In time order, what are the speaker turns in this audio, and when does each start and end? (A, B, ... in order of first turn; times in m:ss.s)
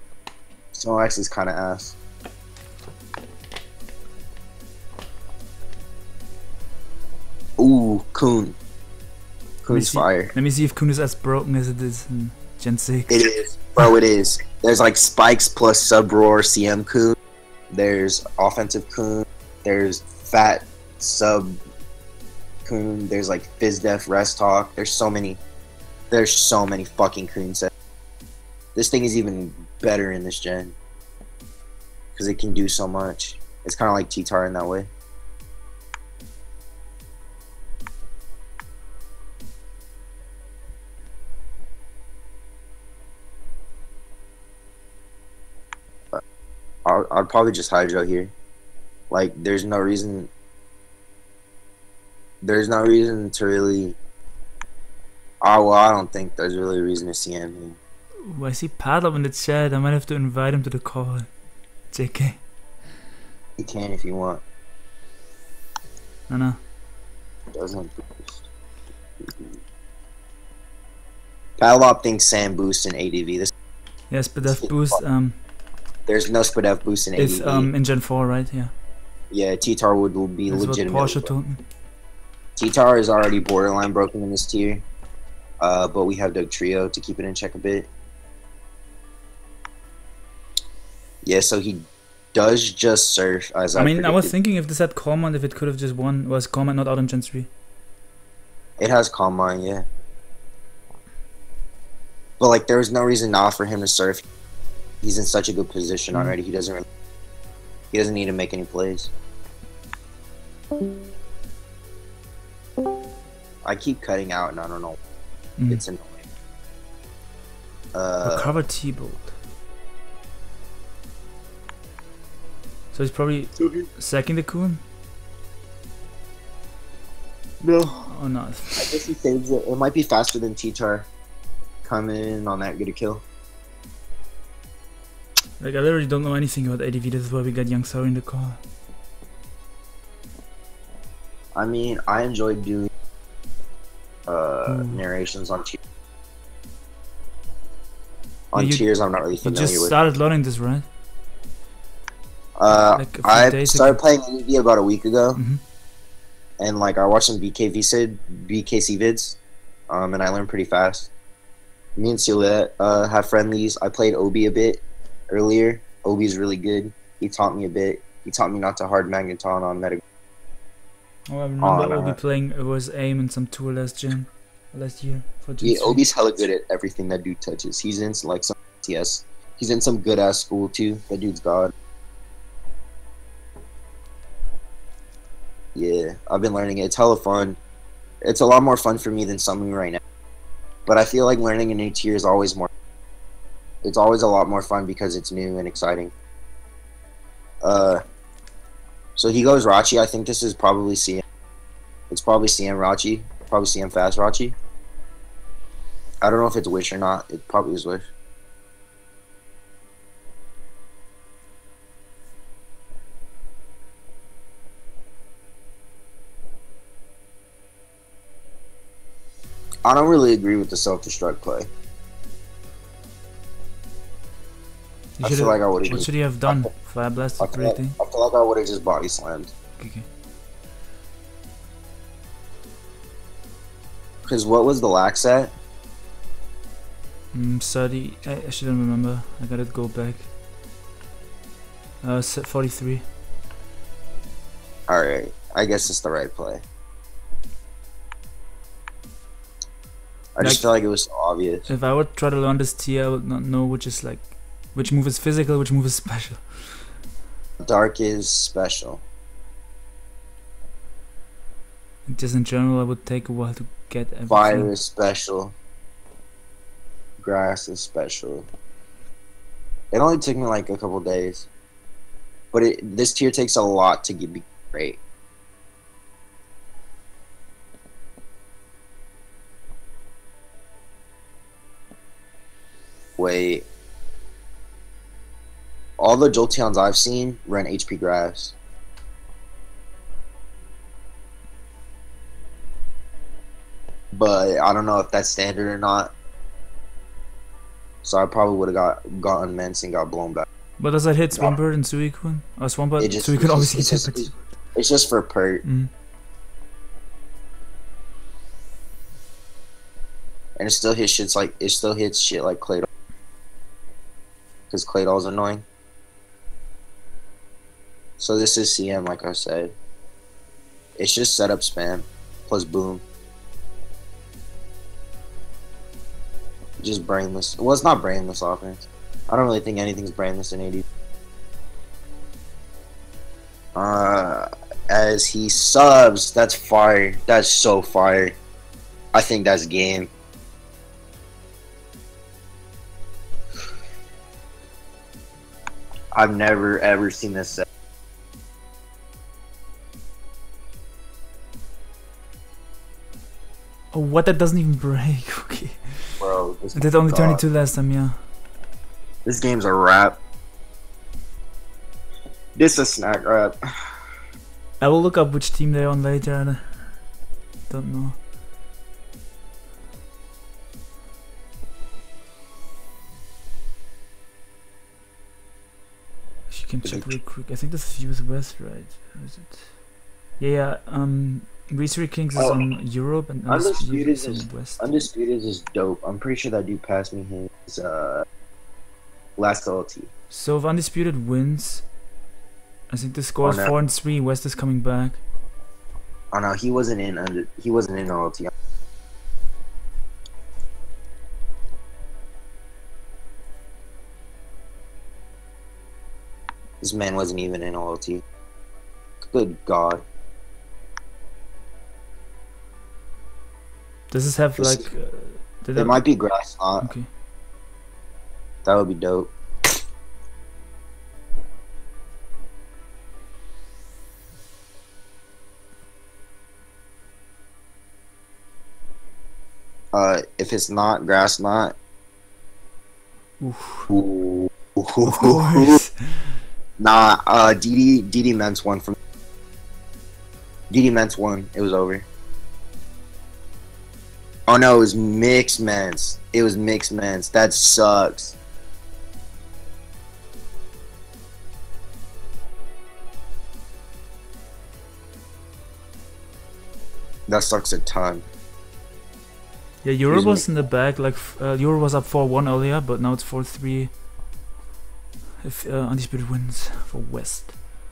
0:00.7-0:02.0 A
0:07.6-0:08.6 A
0:09.6-0:10.3 A
0:09.7-0:13.2 B
0:13.1-0:17.2 A
0:17.7-0:21.6 A
0:22.6-0:25.4 A
0:26.1-0:27.7 A
0:28.7-0:30.8 A
0:32.2-0:34.9 A
0:46.8-0:48.3 A
0:49.1-0:50.3 A
0:52.4-0:54.0 A
0:55.4-0:57.8 A
0:58.2-1:01.3 B
1:01.9-1:02.4 B
1:03.6-1:04.4 A
1:06.3-1:06.6 B
1:07.5-1:08.4 A
1:11.6-1:13.5 A
1:14.1-1:15.4 B
1:14.4-1:15.0 A
1:16.1-1:17.7 A
1:17.2-1:18.7 B
1:19.3-1:21.3 A
1:20.5-1:21.6 B
1:22.6-1:24.8 A
1:25.6-1:27.9 A
1:31.2-1:34.3 A
1:33.7-1:37.5 B
1:38.8-1:39.8 A
1:42.4-1:44.2 A
1:45.0-1:46.8 A
1:47.9-1:49.1 A
1:53.6-1:55.0 A
1:55.6-1:55.8 B
1:55.7-1:56.2 A
1:57.9-1:58.5 A
1:58.2-1:59.3 B
2:02.9-2:04.8 B
2:03.6-2:03.8 A
2:07.6-2:08.1 A
2:08.0-2:08.9 B
2:08.8-2:11.1 A
2:11.8-2:13.2 A
2:15.6-2:18.6 B
2:21.5-2:22.9 A
2:24.3-2:25.8 A
2:24.6-2:25.0 B
2:28.5-2:30.0 A
2:28.5-2:30.8 B
2:32.6-2:35.4 A
2:32.9-2:34.0 B
2:35.4-2:35.6 B
2:36.6-2:39.4 A
2:39.9-2:41.1 A
2:42.0-2:50.0 A
2:51.3-2:56.0 B
2:51.6-2:52.2 A
2:55.6-3:01.7 A
3:05.7-3:07.6 A
3:08.2-3:10.0 A
3:10.9-3:12.7 A
3:13.8-3:16.1 A
3:17.6-3:18.0 A
3:19.2-3:21.2 A
3:22.1-3:24.5 A
3:26.2-3:28.0 A
3:39.8-3:41.7 A
3:45.2-3:47.9 B
3:45.2-3:46.7 A
3:47.4-3:49.5 A
3:49.8-3:50.0 B
3:54.2-3:55.5 A
3:57.3-4:00.3 B
4:02.0-4:03.0 B
4:04.9-4:06.6 A
4:10.3-4:11.7 A
4:10.4-4:10.7 B
4:11.7-4:16.9 B
4:17.6-4:19.0 A
4:22.1-4:24.7 B
4:24.3-4:25.5 A
4:27.2-4:28.5 A
4:29.9-4:31.5 A
4:32.5-4:35.0 A
4:43.2-4:43.7 A
4:46.0-4:48.5 A
4:54.1-4:56.1 A
4:58.0-5:00.4 A
5:00.8-5:04.5 B
5:03.0-5:05.6 A
5:05.6-5:05.9 B
5:10.6-5:12.8 A
5:14.7-5:15.6 A
5:18.2-5:19.7 A
5:21.0-5:23.0 A
5:26.8-5:30.8 A
5:33.8-5:38.4 A
5:39.1-5:40.1 A
5:46.1-5:47.6 A
5:53.9-5:56.1 B
5:56.2-5:57.4 A
5:56.7-5:58.2 B
5:59.2-6:00.2 A
6:02.6-6:03.9 A
6:04.8-6:06.9 B
6:07.7-6:08.2 B
6:16.5-6:19.8 B
6:16.8-6:17.1 A
6:20.4-6:24.8 B
6:22.4-6:22.6 A
6:23.5-6:28.2 A
6:29.4-6:30.1 A
6:30.3-6:31.9 B
6:32.9-6:35.2 B
6:33.4-6:33.7 A
6:36.3-6:38.5 A
6:46.8-6:48.2 A
6:49.3-6:50.0 A
6:54.1-6:56.0 B
6:54.6-6:54.9 A
6:55.7-6:56.9 A
6:56.8-6:57.1 B
6:58.6-6:59.3 A
7:09.9-7:11.8 A
7:13.4-7:13.9 B
7:13.9-7:15.8 A
7:15.0-7:16.4 B
7:16.8-7:19.0 A
7:20.7-7:22.1 A
7:24.5-7:28.4 A
7:37.3-7:38.2 A
7:39.8-7:44.0 B
7:40.1-7:40.4 A
7:45.4-7:47.6 B